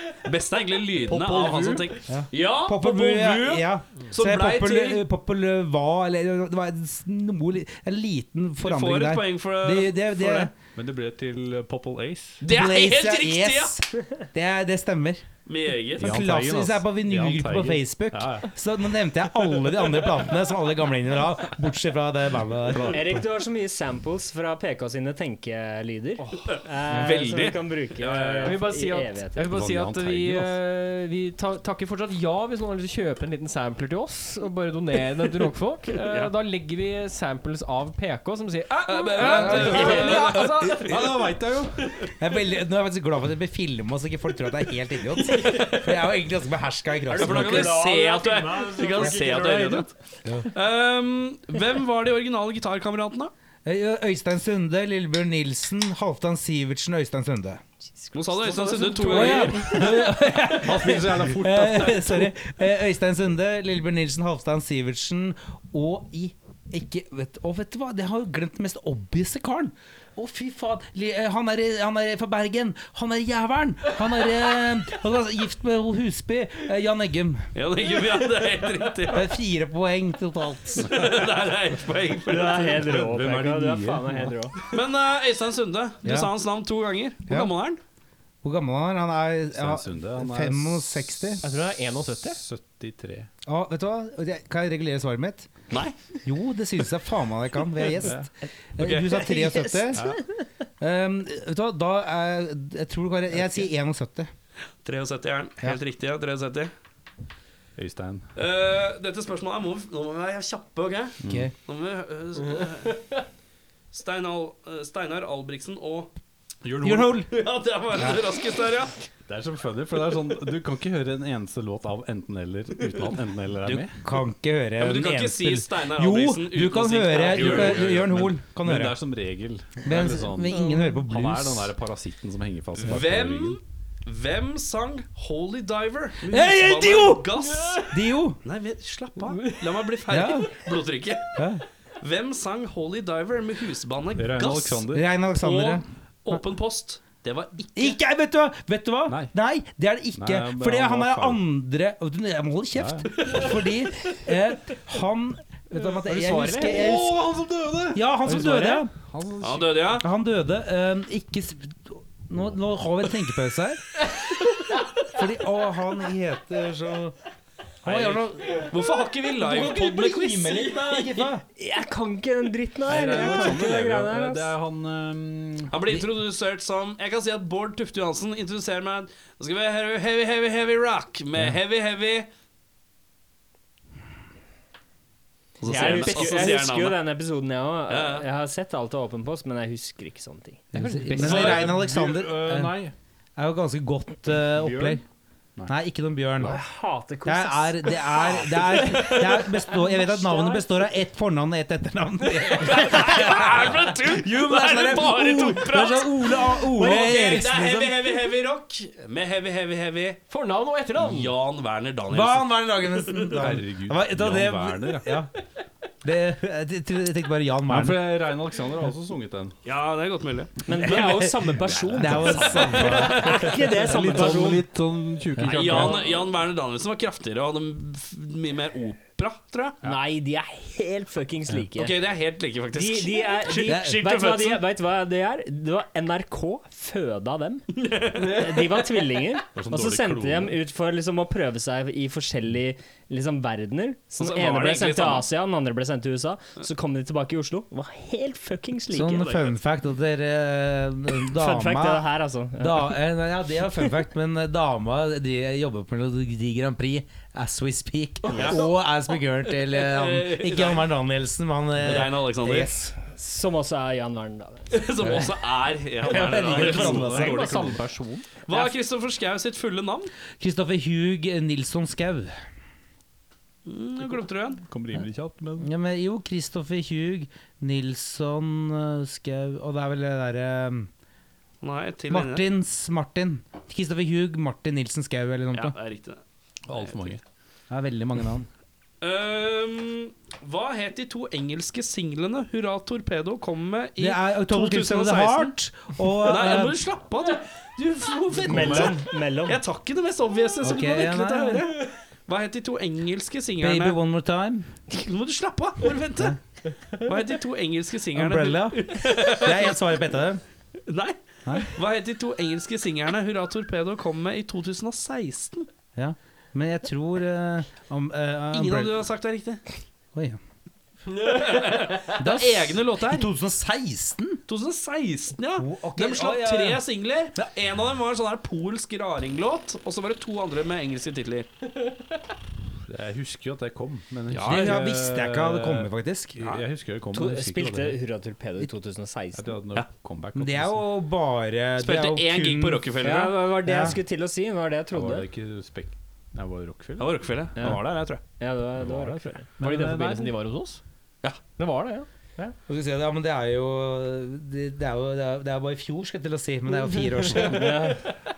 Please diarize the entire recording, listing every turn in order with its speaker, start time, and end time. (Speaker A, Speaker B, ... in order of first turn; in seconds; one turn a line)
Speaker A: 0.2-5.0
Speaker B: 1.1-1.9
Speaker C: 2.1-10.5
Speaker A: 8.6-10.5
Speaker B: 10.7-12.4
Speaker A: 12.4-13.8
Speaker C: 12.4-15.2
Speaker A: 15.5-16.2
Speaker B: 16.0-18.5
Speaker C: 16.0-23.2
Speaker B: 22.7-23.2
Speaker D: 22.9-29.5
Speaker A: 26.5-27.7
Speaker C: 26.9-27.2
Speaker B: 28.1-28.5
Speaker E: 28.4-40.9
Speaker B: 29.5-30.5
Speaker A: 36.0-36.3
Speaker A: 38.9-41.0
Speaker B: 39.2-40.2
Speaker C: 39.6-40.8
Speaker D: 39.6-40.2
Speaker B: 40.8-41.9
Speaker C: 42.2-47.8
Speaker A: 45.2-46.1
Speaker D: 47.1-49.8
Speaker A: 47.1-49.9
Speaker A: 50.5-53.3
Speaker C: 53.6-57.6
Speaker D: 58.0-59.0
Speaker A: 58.1-59.9
Speaker B: 58.8-62.4
Speaker C: 59.0-77.5
Speaker A: 77.5-79.3
Speaker C: 79.1-81.1
Speaker A: 80.8-82.9
Speaker D: 82.2-84.6
Speaker B: 82.7-84.4
Speaker A: 84.7-87.8
Speaker C: 86.0-86.3
Speaker C: 88.4-91.4
Speaker B: 89.5-91.4
Speaker E: 91.4-92.4
Speaker B: 92.2-93.3
Speaker C: 93.5-95.5
Speaker A: 95.7-95.9
Speaker C: 96.2-100.1
Speaker B: 98.0-98.3
Speaker A: 98.8-99.2
Speaker D: 99.1-100.4
Speaker B: 99.9-100.2
Speaker C: 100.8-104.3
Speaker A: 104.8-106.7
Speaker B: 107.8-108.3
Speaker A: 108.3-113.2
Speaker B: 111.2-111.5
Speaker C: 111.2-111.5
Speaker A: 113.9-116.1
Speaker B: 116.6-117.1
Speaker C: 116.8-117.3
Speaker A: 116.8-118.9
Speaker B: 119.3-124.0
Speaker C: 124.0-129.0
Speaker A: 124.8-127.9
Speaker B: 127.2-133.6
Speaker C: 129.8-131.7
Speaker A: 132.8-141.4
Speaker C: 136.3-138.4
Speaker C: 140.1-140.5
Speaker C: 141.3-141.6
Speaker A: 142.0-148.0
Speaker B: 144.2-145.1
Speaker C: 144.9-146.4
Speaker C: 147.8-157.2
Speaker B: 149.1-149.3
Speaker B: 150.1-151.4
Speaker B: 152.7-153.3
Speaker D: 156.1-156.7
Speaker B: 156.4-158.4
Speaker C: 157.9-158.9
Speaker D: 158.3-158.8
Speaker B: 159.0-160.0
Speaker A: 159.4-160.1
Speaker C: 160.0-164.1
Speaker C: 165.0-167.1
Speaker C: 167.8-168.7
Speaker A: 167.8-171.2
Speaker C: 169.4-171.4
Speaker D: 171.5-174.5
Speaker B: 172.8-175.8
Speaker A: 175.7-182.3
Speaker A: 185.6-187.0
Speaker D: 185.6-190.7
Speaker A: 187.9-188.2
Speaker C: 190.7-192.7
Speaker E: 190.8-191.5
Speaker B: 191.0-192.9
Speaker A: 191.2-191.7
Speaker C: 193.4-195.0
Speaker B: 194.5-195.0
Speaker C: 195.7-196.6
Speaker D: 196.4-200.7
Speaker C: 197.2-208.2
Speaker A: 198.9-199.4
Speaker A: 202.5-210.2
Speaker D: 206.7-207.4
Speaker E: 210.3-211.3
Speaker A: 211.0-213.3
Speaker C: 212.1-215.3
Speaker B: 213.3-215.2
Speaker C: 216.0-218.0
Speaker B: 217.7-219.5
Speaker A: 219.6-220.6
Speaker D: 220.7-224.6
Speaker C: 220.8-224.2
Speaker B: 221.9-223.1
Speaker A: 222.3-223.6
Speaker B: 223.7-226.2
Speaker A: 225.4-229.8
Speaker D: 229.8-232.0
Speaker A: 231.8-234.6
Speaker D: 232.7-249.3
Speaker C: 233.7-234.0
Speaker A: 237.7-238.8
Speaker B: 239.5-240.6
Speaker A: 244.2-245.3
Speaker C: 248.9-263.0
Speaker A: 249.0-249.6
Speaker D: 251.2-253.0
Speaker D: 253.7-253.9
Speaker A: 258.3-258.7
Speaker A: 259.4-260.9
Speaker A: 261.8-262.7
Speaker D: 263.0-265.2
Speaker A: 264.7-267.7
Speaker C: 266.0-267.7
Speaker B: 266.5-268.0
Speaker E: 266.9-268.3
Speaker A: 268.5-270.1
Speaker C: 270.4-272.4
Speaker A: 273.6-274.6
Speaker B: 274.6-275.7
Speaker C: 275.6-280.9
Speaker A: 281.6-282.5
Speaker C: 282.1-285.7
Speaker A: 285.5-287.2
Speaker B: 286.7-287.2
Speaker C: 287.7-288.5
Speaker A: 289.0-295.5
Speaker C: 294.0-296.8
Speaker A: 296.2-304.0
Speaker C: 298.3-298.9
Speaker D: 298.4-299.6
Speaker C: 300.6-301.7
Speaker C: 303.6-304.7
Speaker A: 304.9-306.4
Speaker A: 306.9-309.8
Speaker C: 308.1-310.4
Speaker A: 310.9-315.7
Speaker C: 311.4-311.7
Speaker C: 315.9-318.9
Speaker A: 318.5-319.6
Speaker C: 320.1-320.4
Speaker A: 321.1-323.3
Speaker C: 322.2-324.4
Speaker A: 324.5-331.5
Speaker C: 325.6-326.8
Speaker B: 332.9-338.0
Speaker A: 334.3-334.9
Speaker C: 334.4-336.6
Speaker D: 337.1-339.5
Speaker B: 339.3-340.9
Speaker C: 340.3-342.9
Speaker A: 341.8-343.5
Speaker D: 343.0-345.3
Speaker C: 343.6-344.0
Speaker B: 344.9-347.2
Speaker A: 347.0-348.2
Speaker D: 347.6-349.5
Speaker B: 348.8-350.3
Speaker E: 349.6-350.8
Speaker E: 351.6-352.1
Speaker C: 352.6-358.0
Speaker D: 357.4-358.1